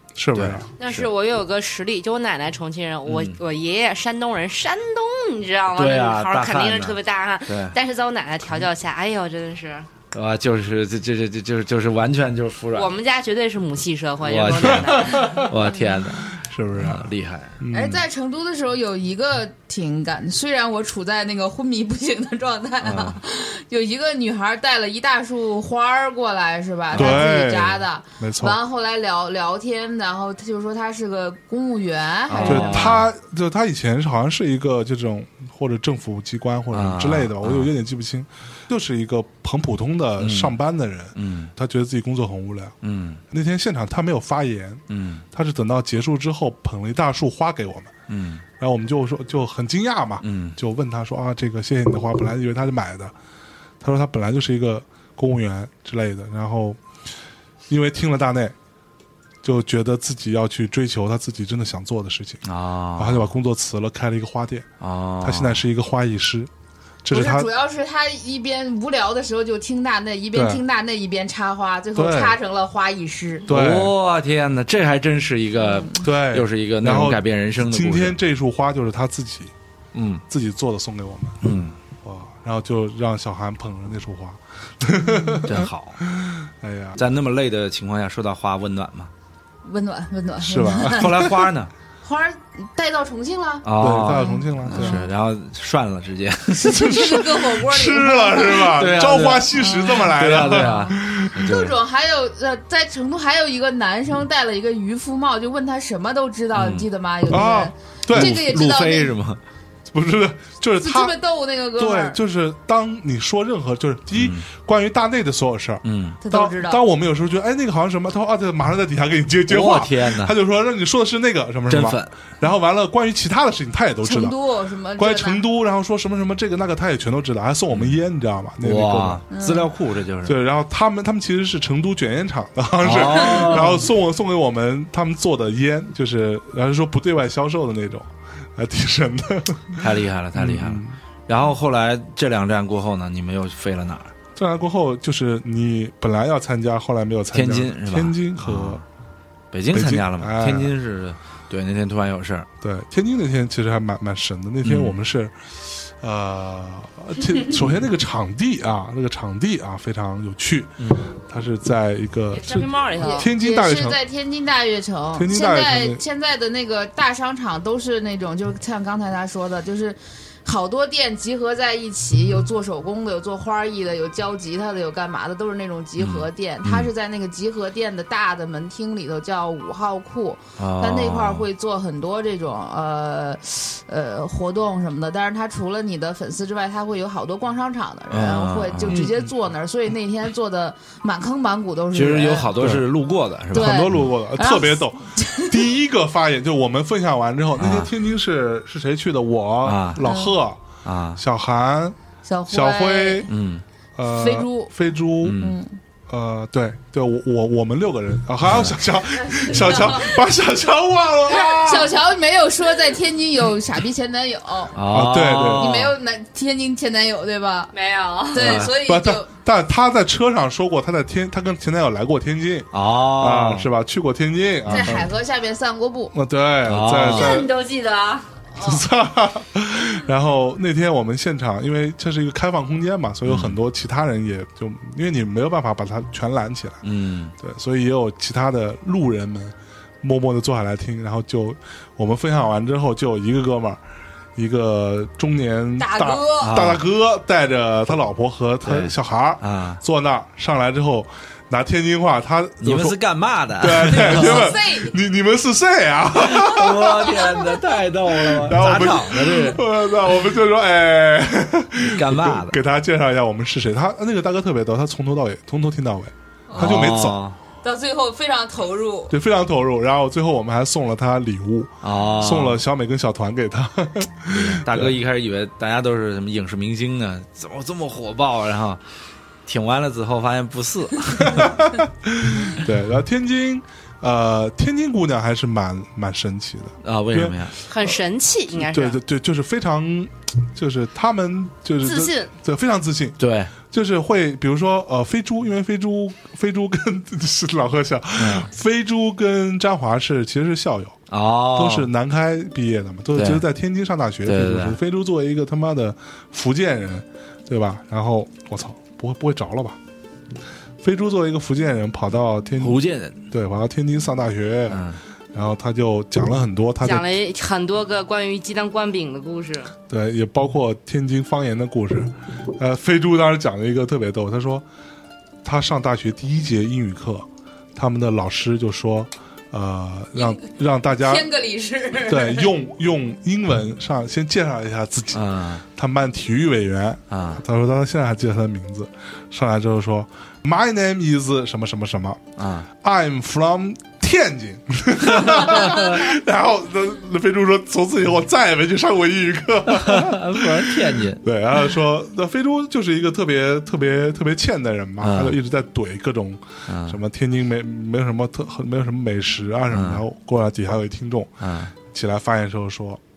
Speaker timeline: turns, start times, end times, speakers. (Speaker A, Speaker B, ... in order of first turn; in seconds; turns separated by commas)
Speaker A: 0.1-0.7, Speaker B: 0.3-1.1, Speaker C: 0.8-9.9, Speaker B: 3.0-3.4, Speaker B: 5.7-7.7, Speaker B: 10.1-12.9, Speaker C: 12.7-15.5, Speaker B: 14.2-17.6, Speaker A: 14.6-15.4, Speaker A: 16.4-18.0, Speaker D: 17.7-32.9, Speaker B: 22.8-23.2, Speaker B: 26.9-27.2, Speaker A: 26.9-28.6, Speaker B: 32.3-33.1, Speaker A: 32.4-42.8, Speaker B: 36.7-37.7, Speaker B: 40.2-40.5, Speaker B: 41.1-41.5, Speaker B: 42.8-43.2, Speaker A: 43.3-47.9, Speaker B: 44.9-45.2, Speaker B: 48.1-48.4, Speaker A: 48.6-53.1, Speaker B: 50.2-50.6, Speaker A: 53.8-56.8, Speaker A: 57.7-58.5, Speaker A: 59.4-62.4, Speaker B: 62.4-63.3, Speaker A: 63.0-64.7, Speaker B: 64.8-65.6, Speaker A: 65.2-66.5, Speaker A: 67.0-67.5, Speaker D: 67.1-73.5, Speaker A: 70.3-70.6, Speaker A: 71.9-72.4, Speaker A: 73.5-73.9, Speaker B: 73.5-78.2, Speaker D: 75.6-76.1, Speaker A: 76.0-79.5, Speaker B: 79.9-80.2, Speaker A: 80.3-81.4, Speaker B: 81.4-81.8, Speaker A: 82.0-87.0, Speaker B: 85.4-86.0, Speaker B: 87.0-89.1, Speaker D: 89.6-91.4, Speaker A: 90.4-91.3, Speaker B: 90.9-91.7, Speaker D: 92.0-95.1, Speaker B: 93.6-97.2, Speaker A: 93.8-95.0, Speaker D: 96.5-98.9, Speaker A: 96.8-101.4, Speaker B: 98.7-101.7, Speaker D: 99.5-109.1, Speaker B: 106.5-106.9, Speaker A: 107.3-108.4, Speaker B: 108.1-109.4, Speaker A: 109.9-111.1, Speaker D: 110.8-112.2, Speaker A: 111.8-124.3, Speaker B: 114.1-114.5, Speaker B: 115.8-116.2, Speaker D: 116.2-116.8, Speaker B: 119.5-120.3, Speaker B: 121.7-122.1, Speaker D: 124.0-125.4, Speaker A: 125.0-129.2, Speaker B: 127.7-128.0, Speaker B: 128.6-130.3, Speaker D: 129.3-129.7, Speaker A: 130.2-141.0, Speaker B: 132.8-133.9, Speaker D: 133.2-133.6, Speaker B: 139.8-144.1, Speaker A: 144.3-148.8, Speaker B: 147.3-148.8, Speaker B: 149.5-152.5, Speaker A: 149.7-150.7, Speaker A: 152.6-164.0, Speaker B: 154.6-155.0, Speaker B: 160.8-161.1, Speaker C: 162.3-163.3, Speaker D: 163.0-192.6, Speaker A: 165.1-166.0, Speaker B: 176.0-176.9, Speaker B: 180.6-181.5, Speaker B: 188.1-189.0, Speaker A: 188.9-189.3, Speaker B: 191.9-194.1, Speaker A: 192.6-192.8, Speaker A: 193.5-200.6, Speaker D: 193.5-195.6, Speaker B: 197.6-197.9, Speaker B: 199.6-200.0, Speaker D: 200.0-200.3, Speaker B: 200.8-201.2, Speaker A: 201.2-201.9, Speaker D: 202.2-203.3, Speaker A: 202.5-203.3, Speaker B: 203.3-203.6, Speaker A: 203.9-205.4, Speaker D: 204.1-204.7, Speaker B: 205.2-205.6, Speaker D: 205.3-205.8, Speaker A: 206.1-212.0, Speaker B: 208.4-208.8, Speaker D: 209.3-210.1, Speaker D: 211.3-214.8, Speaker B: 214.7-215.9, Speaker A: 214.9-215.9, Speaker D: 215.5-217.7, Speaker C: 217.7-218.6, Speaker D: 218.3-219.3, Speaker B: 218.3-218.7, Speaker A: 218.5-225.1, Speaker B: 222.7-223.7, Speaker D: 224.7-226.1, Speaker B: 224.7-225.0, Speaker A: 226.1-227.5, Speaker B: 226.7-227.5, Speaker C: 227.1-228.3, Speaker D: 228.5-228.8, Speaker A: 228.6-236.8, Speaker B: 233.2-233.6, Speaker B: 236.8-237.3, Speaker A: 237.4-243.8, Speaker A: 244.3-253.0, Speaker D: 245.8-246.6, Speaker B: 246.4-246.8, Speaker B: 248.6-249.8, Speaker B: 252.6-254.5, Speaker A: 253.6-257.4, Speaker D: 253.9-254.9, Speaker B: 256.2-259.6, Speaker A: 258.1-267.2, Speaker B: 261.8-262.6, Speaker D: 266.5-266.9, Speaker B: 266.5-267.4, Speaker D: 267.6-269.1, Speaker A: 269.1-274.9, Speaker B: 271.8-272.6, Speaker B: 274.3-278.8, Speaker B: 279.4-281.5, Speaker A: 281.2-288.0, Speaker B: 286.8-287.5, Speaker C: 287.7-289.0, Speaker A: 288.5-301.0, Speaker C: 291.8-292.3, Speaker B: 293.2-293.5, Speaker B: 298.2-298.5, Speaker B: 301.1-301.9, Speaker A: 301.5-309.8, Speaker B: 303.1-303.4, Speaker B: 304.2-304.8, Speaker A: 310.8-317.1, Speaker B: 312.6-313.2, Speaker B: 314.7-315.0, Speaker C: 316.8-319.7, Speaker A: 319.9-324.6, Speaker A: 325.4-331.3, Speaker D: 331.0-332.5, Speaker A: 332.0-342.2, Speaker B: 335.1-335.6, Speaker B: 337.1-337.4, Speaker B: 342.4-342.7, Speaker A: 342.8-363.0, Speaker B: 345.0-346.0, Speaker B: 349.7-351.2, Speaker B: 355.0-355.4, Speaker B: 356.7-357.0, Speaker B: 359.7-360.0, Speaker B: 361.4-361.7